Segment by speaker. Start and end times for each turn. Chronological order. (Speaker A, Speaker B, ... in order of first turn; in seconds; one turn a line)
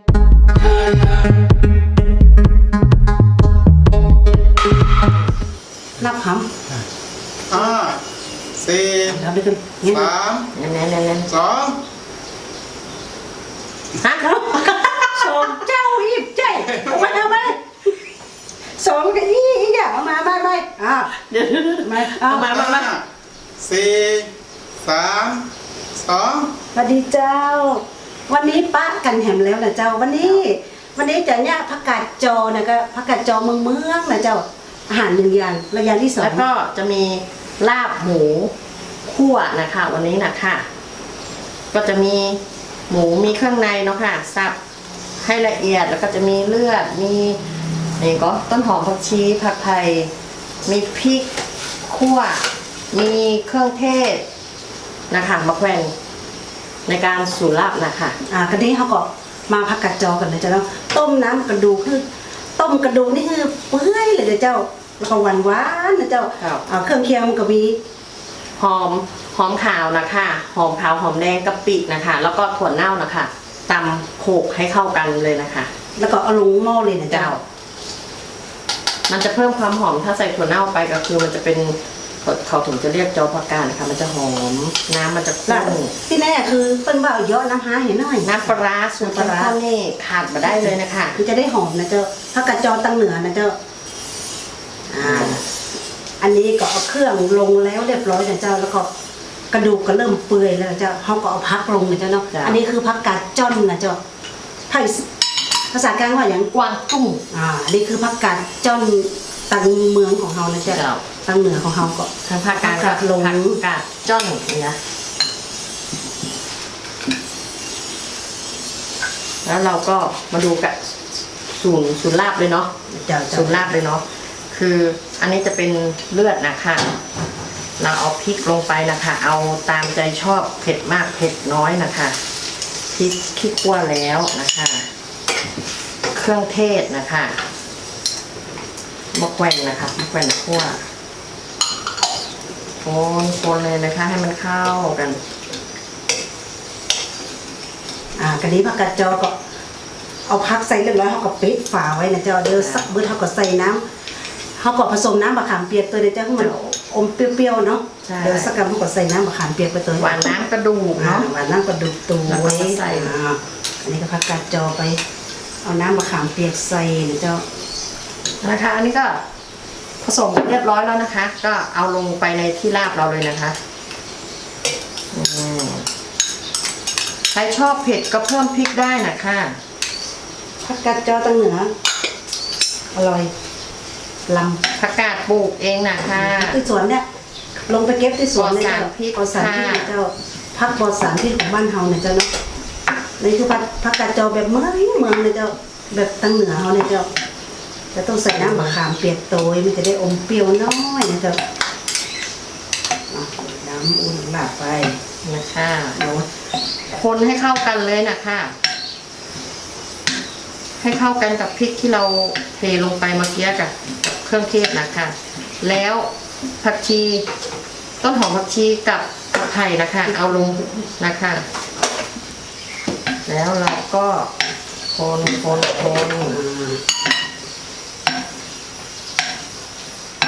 Speaker A: 6.0-6.5
Speaker B: 7.5-8.0
Speaker B: 8.6-9.1
Speaker A: 9.0-10.2
Speaker B: 10.1-10.5
Speaker C: 10.5-11.5
Speaker B: 11.5-11.8
Speaker C: 14.0-14.3
Speaker A: 14.2-17.6
Speaker A: 18.8-21.1
Speaker C: 21.1-23.0
Speaker A: 21.8-22.7
Speaker B: 23.6-24.3
Speaker B: 24.8-25.5
Speaker B: 26.0-26.5
Speaker A: 26.7-36.4
Speaker C: 36.2-38.5
Speaker C: 39.0-40.6
Speaker C: 41.7-44.6
Speaker C: 45.2-47.4
Speaker C: 48.0-50.1
Speaker C: 50.7-51.3
Speaker C: 51.9-54.2
Speaker C: 55.1-55.9
Speaker C: 56.9-58.2
Speaker A: 58.3-62.0
Speaker A: 62.6-67.8
Speaker C: 66.4-66.6
Speaker C: 68.6-75.7
Speaker A: 76.0-77.4
Speaker C: 77.1-77.4
Speaker C: 79.1-85.9
Speaker A: 85.5-89.5
Speaker C: 88.2-91.2
Speaker A: 90.4-93.5
Speaker A: 94.9-95.4
Speaker C: 95.0-95.4
Speaker A: 96.2-98.9
Speaker A: 99.5-104.0
Speaker C: 102.3-102.6
Speaker A: 104.7-105.0
Speaker A: 105.7-106.5
Speaker C: 106.5-107.2
Speaker A: 107.3-113.6
Speaker C: 110.7-111.0
Speaker C: 112.2-114.8
Speaker C: 119.5-120.8
Speaker C: 121.5-122.7
Speaker A: 122.9-123.7
Speaker C: 123.3-126.9
Speaker C: 127.8-132.2
Speaker C: 132.9-134.9
Speaker C: 136.1-137.3
Speaker C: 139.1-140.8
Speaker C: 142.8-145.2
Speaker A: 148.2-149.4
Speaker A: 150.3-153.8
Speaker C: 152.6-152.9
Speaker A: 154.6-160.2
Speaker C: 158.1-158.5
Speaker C: 160.0-161.3
Speaker A: 161.0-165.0
Speaker C: 162.3-163.1
Speaker A: 165.6-167.4
Speaker C: 168.4-169.2
Speaker C: 170.0-173.6
Speaker C: 175.1-175.9
Speaker C: 177.3-179.6
Speaker A: 180.6-181.7
Speaker A: 182.9-183.3
Speaker A: 184.3-184.6
Speaker C: 184.8-186.6
Speaker A: 186.2-187.1
Speaker A: 187.7-192.3
Speaker C: 188.3-189.9
Speaker A: 193.2-197.1
Speaker A: 197.9-201.4
Speaker C: 198.3-198.8
Speaker A: 203.1-205.0
Speaker C: 205.2-206.0
Speaker A: 206.0-206.3
Speaker C: 206.9-208.5
Speaker C: 210.8-216.1
Speaker C: 216.6-217.3
Speaker C: 218.0-221.4
Speaker C: 223.3-224.3
Speaker C: 224.9-226.4
Speaker A: 226.3-226.8